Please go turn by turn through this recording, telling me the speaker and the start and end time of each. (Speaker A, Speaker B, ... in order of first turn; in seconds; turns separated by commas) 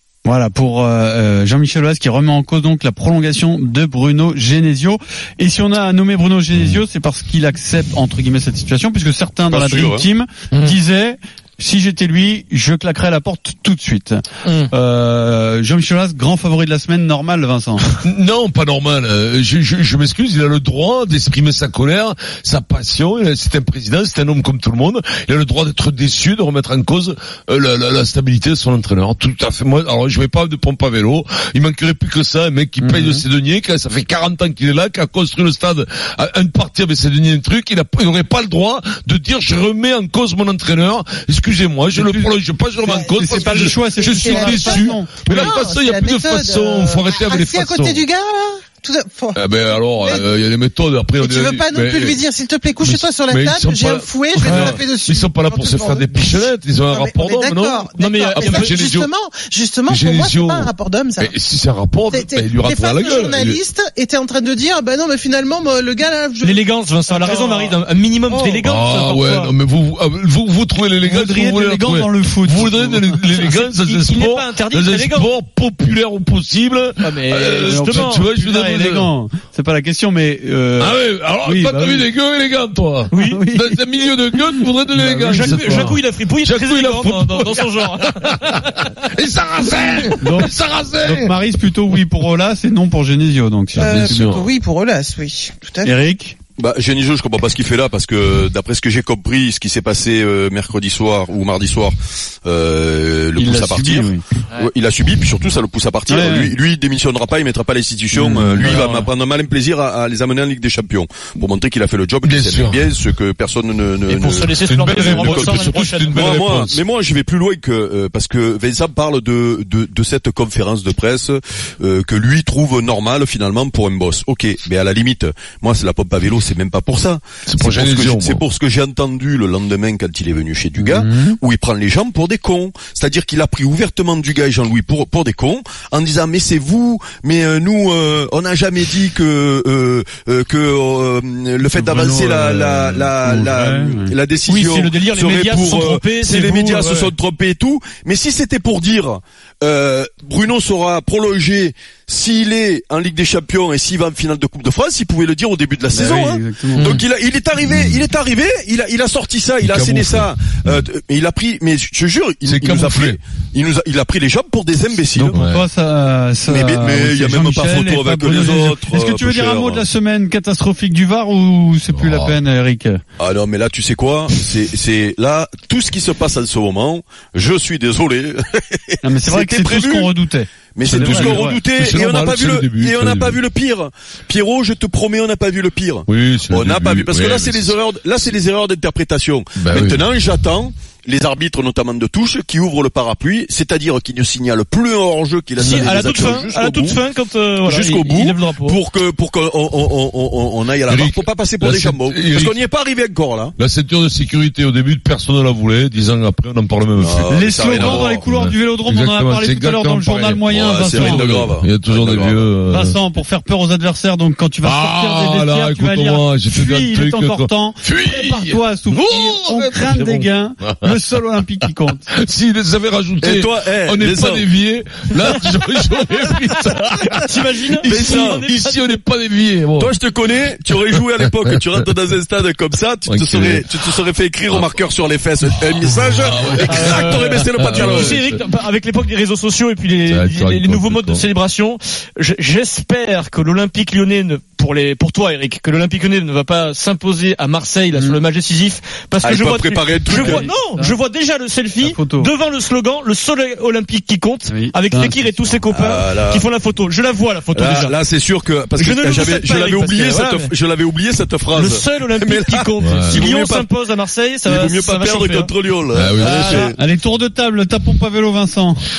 Speaker A: 0.2-17.9, Speaker B: 9.5-10.1, Speaker C: 14.4-14.7, Speaker D: 18.0-48.0, Speaker A: 32.8-33.2, Speaker A: 41.9-45.1, Speaker E: 42.8-50.3, Speaker D: 49.3-52.2, Speaker E: 51.2-61.4, Speaker D: 52.8-59.1, Speaker C: 58.0-58.8, Speaker D: 59.9-63.6, Speaker E: 62.0-67.8, Speaker C: 66.4-69.5, Speaker E: 68.3-68.6, Speaker D: 68.6-79.1, Speaker A: 71.0-73.1, Speaker C: 73.3-75.3, Speaker C: 77.0-78.2, Speaker A: 77.6-82.1, Speaker D: 80.8-91.3, Speaker C: 83.1-83.4, Speaker A: 83.2-83.8, Speaker A: 84.6-85.8, Speaker C: 85.0-88.7, Speaker A: 90.2-93.9, Speaker D: 93.8-94.5, Speaker E: 93.8-95.9, Speaker A: 95.8-96.3, Speaker B: 96.6-165.4, Speaker A: 103.3-104.2, Speaker A: 106.1-106.5, Speaker A: 108.1-108.6, Speaker C: 108.6-109.1, Speaker D: 112.2-112.9, Speaker C: 114.1-116.4, Speaker D: 114.6-116.8, Speaker D: 127.5-128.4, Speaker A: 130.8-131.3, Speaker A: 141.7-144.1, Speaker C: 144.4-147.1, Speaker A: 155.9-156.9, Speaker D: 159.6-160.7, Speaker D: 162.4-163.2, Speaker A: 165.2-173.0, Speaker D: 165.3-165.6, Speaker B: 166.5-169.8, Speaker D: 171.9-172.3, Speaker B: 173.2-180.1, Speaker A: 179.0-181.6, Speaker B: 180.7-197.0, Speaker D: 180.8-183.4, Speaker D: 186.1-187.8, Speaker D: 189.6-190.0, Speaker C: 195.6-198.8, Speaker B: 197.7-203.6, Speaker D: 200.8-202.6, Speaker D: 203.6-213.0, Speaker B: 206.9-208.2, Speaker A: 207.3-211.5, Speaker B: 210.6-212.5, Speaker A: 212.7-222.1, Speaker D: 214.6-220.9, Speaker D: 222.1-230.0, Speaker B: 223.2-224.5, Speaker C: 227.2-228.8, Speaker B: 227.8-228.5, Speaker B: 229.8-238.2, Speaker D: 230.9-231.6, Speaker D: 233.1-233.9, Speaker D: 234.5-234.7, Speaker D: 235.4-238.4, Speaker C: 236.7-258.0, Speaker D: 240.1-241.2, Speaker B: 249.2-250.5, Speaker A: 250.1-251.0, Speaker A: 251.8-252.3, Speaker A: 254.5-255.6, Speaker B: 255.7-256.5, Speaker B: 257.5-263.6, Speaker C: 258.8-260.5, Speaker C: 261.5-265.5, Speaker D: 262.8-263.3, Speaker B: 264.4-266.8, Speaker D: 265.9-266.6, Speaker C: 266.2-266.8, Speaker A: 266.7-268.8